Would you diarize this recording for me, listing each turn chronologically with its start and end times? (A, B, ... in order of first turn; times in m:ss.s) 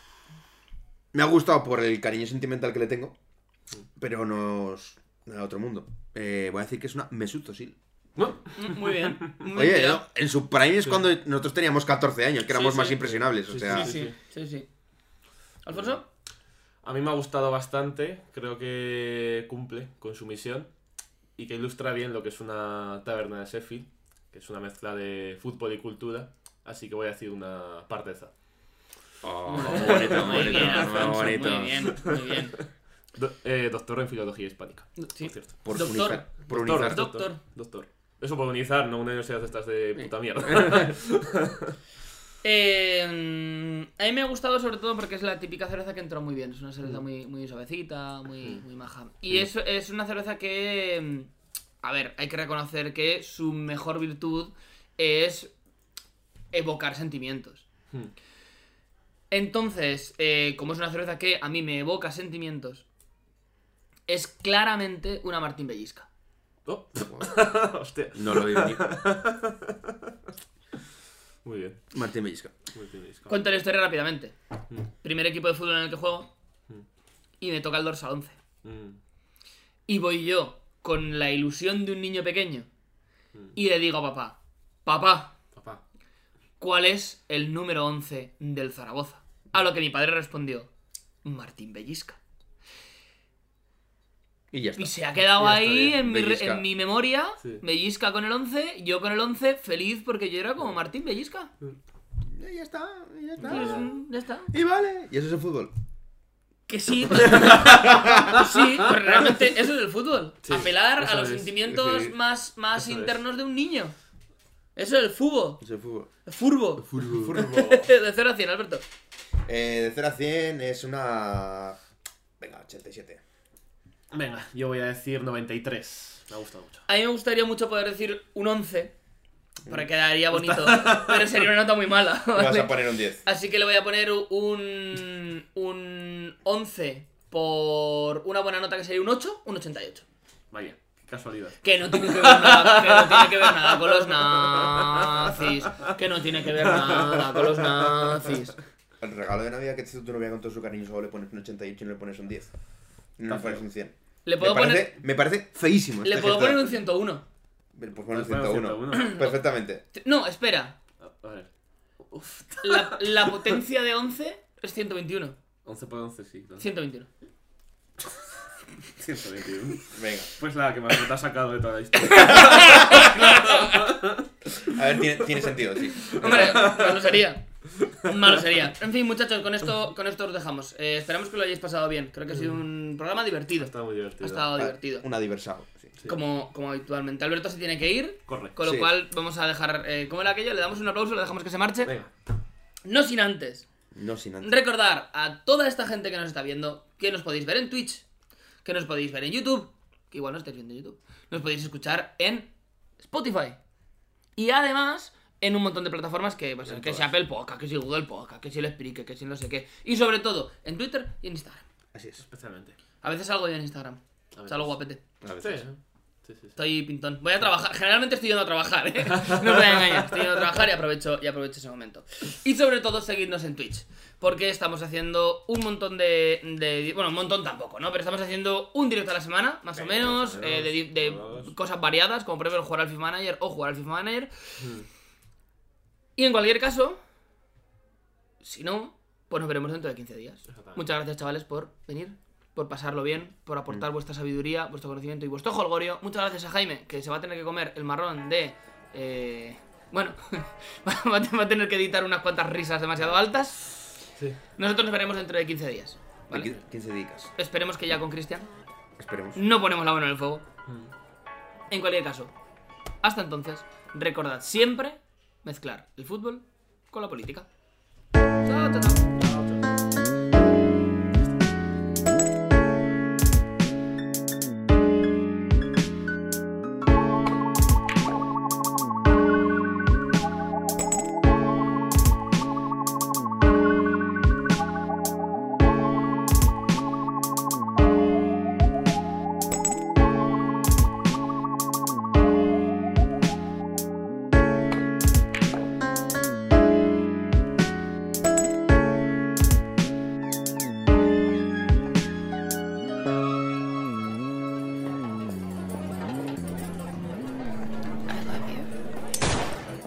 0:01.1-0:03.1 A
0:04.0-0:07.8 A
0:08.2-0:09.3 B
0:08.6-0:10.0 C
0:09.5-0:13.9 A
0:12.5-0:14.1 B
0:13.7-0:14.7 C
0:15.6-0:16.0 C
0:16.8-0:20.7 B
0:21.4-0:28.3 B
0:29.2-0:31.9 A
0:29.5-0:32.6 C
0:29.6-0:32.2 B
0:33.1-0:41.7 B
0:35.0-0:37.4 C
0:35.6-0:37.0 A
0:42.4-0:51.3 C
0:51.8-0:55.5 C
0:56.5-0:57.6 C
0:59.3-1:02.8 C
1:04.1-1:06.1 C
1:06.6-1:10.1 B
1:07.0-1:07.3 A
1:08.1-1:08.9 A
1:11.4-1:11.8 B
1:11.9-1:12.5 A
1:12.7-1:13.4 B
1:13.3-1:14.3 C
1:15.0-1:16.3 C
1:17.4-1:18.4 C
1:18.6-1:19.0 B
1:19.9-1:22.7 C
1:23.5-1:25.3 C
1:25.5-1:25.8 B
1:26.6-1:30.7 C
1:31.2-1:32.2 C
1:34.5-1:34.9 A
1:34.8-1:41.5 C
1:35.3-1:36.0 B
1:36.0-1:36.6 A
1:42.3-1:43.9 A
1:43.4-1:44.5 C
1:43.4-1:43.8 B
1:44.5-1:45.7 A
1:46.7-1:53.9 C
1:47.3-1:48.3 B
1:47.9-1:48.3 A
1:50.4-1:52.1 B
1:52.7-1:53.2 B
1:54.8-1:55.6 C
1:55.6-1:56.1 A
1:56.2-1:58.8 C
1:56.8-1:57.4 A
1:57.1-1:57.9 B
1:59.4-2:01.8 A
2:02.4-2:03.2 A
2:04.1-2:06.8 B
2:06.9-2:08.9 C
2:09.7-2:20.0 C
2:10.3-2:11.4 B
2:12.3-2:13.2 A
2:20.5-2:25.1 B
2:21.6-2:28.6 C
2:26.7-2:27.5 B
2:29.0-2:32.5 A
2:33.2-2:36.6 A
2:33.2-2:33.6 B
2:34.2-2:34.9 C
2:36.0-2:37.2 C
2:37.7-2:39.8 A
2:38.1-2:39.2 B
2:38.9-2:39.3 C
2:39.9-2:40.8 C
2:41.0-2:41.5 B
2:42.1-2:43.5 B
2:42.6-2:45.4 C
2:45.6-2:46.6 B
2:46.6-2:47.1 C
2:48.9-2:54.2 B
2:49.9-2:50.3 A
2:52.1-2:53.8 C
2:54.6-2:56.7 A
2:56.0-2:57.2 B
2:56.2-3:05.0 C
3:02.3-3:02.6 B
3:03.6-3:04.5 B
3:04.5-3:05.9 A
3:06.0-3:11.9 C
3:08.3-3:08.5 B
3:08.6-3:08.9 A
3:11.8-3:12.1 B
3:12.8-3:13.7 C
3:13.9-3:14.6 A
3:14.4-3:18.0 C
3:18.6-3:23.6 C
3:24.4-3:31.6 C
3:26.6-3:27.1 B
3:31.9-3:32.2 A
3:32.2-3:32.7 B
3:33.0-3:35.0 C
3:34.3-3:34.7 B
3:35.2-3:35.6 A
3:35.4-3:36.6 B
3:36.6-3:54.3 C
3:49.7-3:51.5 B
3:54.6-3:54.8 B
3:56.2-3:57.0 C
3:58.4-4:13.8 C
4:00.5-4:00.8 B
4:14.6-4:16.5 C
4:16.3-4:17.3 A
4:17.4-4:18.5 C
4:19.0-4:19.4 A
4:19.3-4:20.4 C
4:21.7-4:22.3 C
4:23.0-4:27.5 C
4:28.4-4:29.2 C
4:29.2-4:29.8 B
5:08.1-5:08.7 C